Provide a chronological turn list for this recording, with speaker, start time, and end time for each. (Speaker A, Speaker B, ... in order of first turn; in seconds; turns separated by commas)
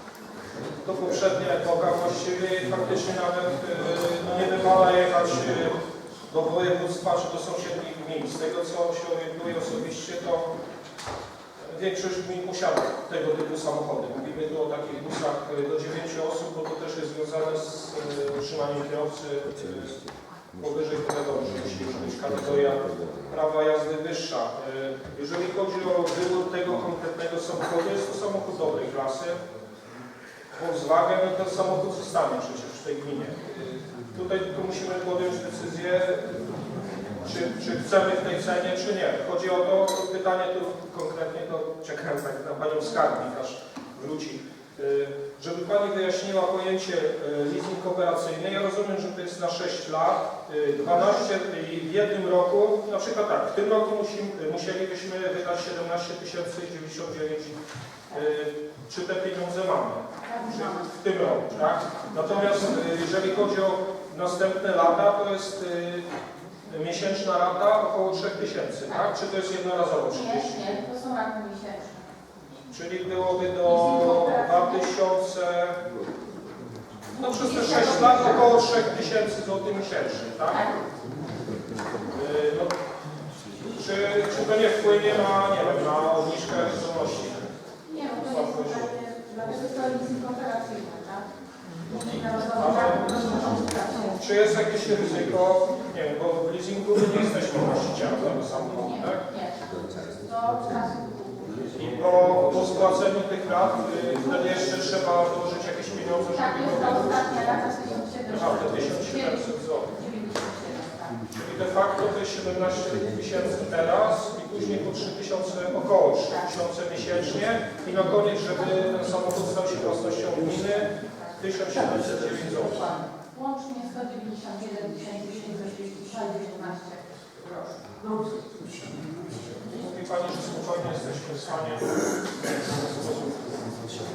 Speaker A: 0.8-10.5, Speaker A: 11.6-20.0, Speaker A: 20.6-29.4, Speaker A: 30.5-36.5, Speaker A: 37.2-57.6, Speaker A: 58.1-66.1, Speaker B: 60.3-60.9, Speaker A: 66.7-70.9, Speaker B: 70.2-72.0, Speaker A: 72.7-75.8, Speaker B: 73.7-74.8, Speaker A: 77.2-80.6, Speaker B: 77.3-78.4, Speaker B: 80.5-80.8, Speaker A: 82.1-82.7, Speaker A: 83.7-87.4, Speaker B: 87.9-91.2, Speaker A: 88.0-89.0, Speaker A: 91.9-93.6, Speaker B: 92.1-94.1, Speaker A: 94.2-99.2, Speaker B: 100.2-101.7, Speaker A: 101.8-107.6, Speaker B: 106.4-111.2, Speaker A: 108.3-109.9, Speaker A: 111.3-122.9, Speaker B: 123.3-127.0, Speaker A: 129.7-132.0, Speaker A: 132.5-133.3